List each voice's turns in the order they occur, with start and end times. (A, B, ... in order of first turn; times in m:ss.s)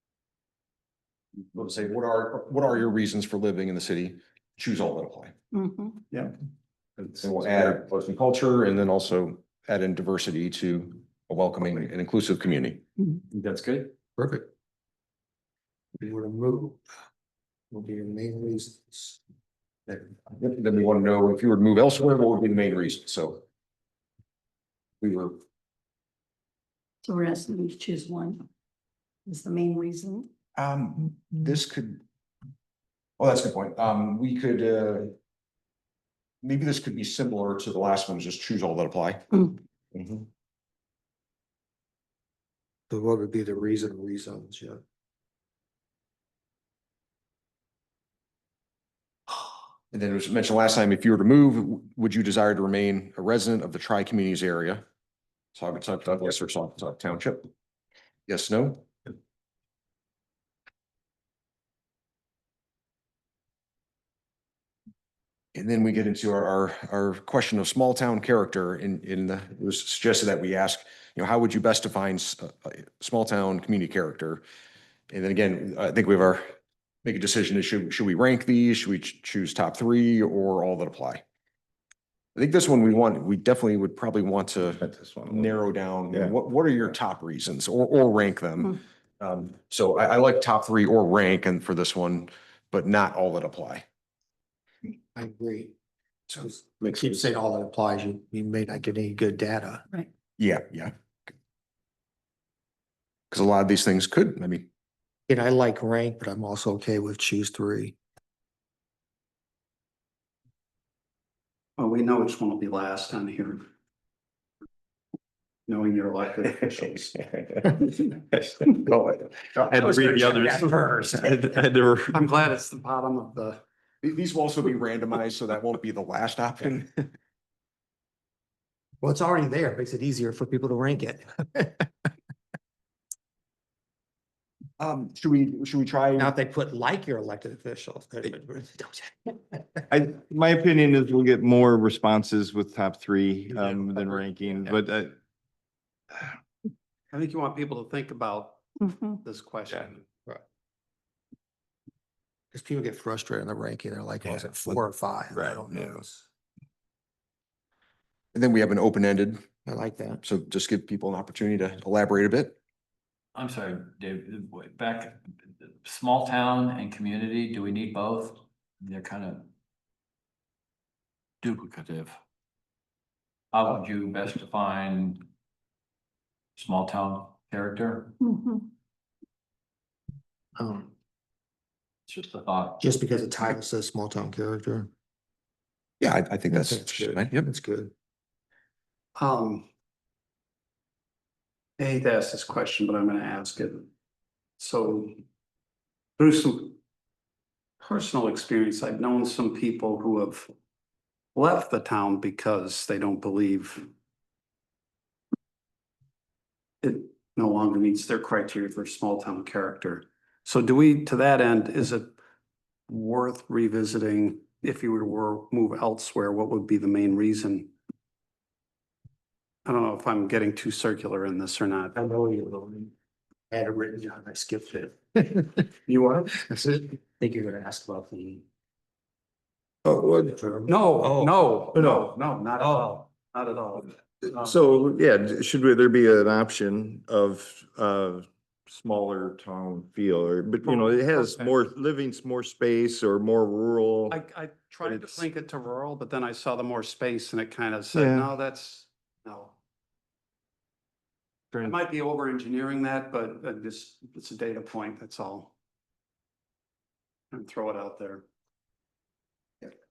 0:01.5-0:05.3 A
0:05.5-0:06.1 B
0:07.2-0:12.8 A
0:13.3-0:13.9 C
0:14.2-0:14.5 D
0:16.0-0:16.8 D
0:17.7-0:19.2 D
0:19.9-0:23.4 A
0:25.0-0:25.4 A
0:27.0-0:28.4 B
0:29.2-0:30.3 B
0:30.6-0:32.0 A
0:33.2-0:35.1 A
0:36.4-0:39.3 A
0:39.9-0:40.2 A
0:42.9-0:44.8 D
0:49.9-0:54.8 A
0:55.5-0:57.5 A
0:58.3-0:58.9 A
1:05.5-1:14.4 A
1:15.1-1:21.2 A
1:22.4-1:33.8 A
1:24.6-1:25.6 E
1:35.1-1:35.7 D
1:36.4-1:39.8 D
1:40.4-1:40.9 A
1:43.3-1:44.7 A
1:45.3-1:47.9 D
1:51.8-1:53.6 F
1:55.7-1:57.2 F
1:58.7-1:59.8 A
1:59.6-2:02.2 E
1:59.9-2:01.0 D
2:02.1-2:03.6 F
2:04.0-2:07.0 A
2:09.0-2:11.9 D
2:14.8-2:16.3 A
2:16.2-2:19.8 D
2:19.9-2:25.2 E
2:27.1-2:30.0 F
2:28.9-2:29.1 B
2:32.5-2:36.2 D
2:34.4-2:34.8 E
2:35.3-2:36.0 E
2:38.3-2:39.5 A
2:39.6-2:40.2 D
2:40.2-2:42.6 A
2:43.3-2:49.5 C
2:51.4-2:52.2 C
2:53.5-2:55.2 C
2:56.6-2:58.2 C
2:58.2-2:58.6 B
3:00.6-3:00.9 D
3:02.1-3:02.8 C
3:02.8-3:04.9 D
3:06.0-3:07.5 A
3:06.5-3:07.9 D
3:09.2-3:09.7 F
3:11.8-3:13.9 F
3:14.6-3:15.2 F
3:16.2-3:16.8 F
3:17.8-3:20.5 F
3:21.3-3:23.9 F
3:26.8-3:32.1 F
3:32.9-3:37.7 F
3:39.6-3:42.0 F
3:41.9-3:42.9 D
3:43.5-3:45.7 D
3:45.9-3:46.7 F
3:46.5-3:48.4 D
3:49.8-3:50.4 E
3:50.2-3:51.3 D
3:50.6-3:54.6 F
3:51.7-3:52.0 E
3:52.6-3:52.9 D
3:54.2-4:04.2 E
4:00.7-4:01.5 F
4:04.1-4:09.5 F
4:04.8-4:05.2 E
4:07.9-4:08.3 E
4:11.6-4:15.5 F
4:17.3-4:18.2 F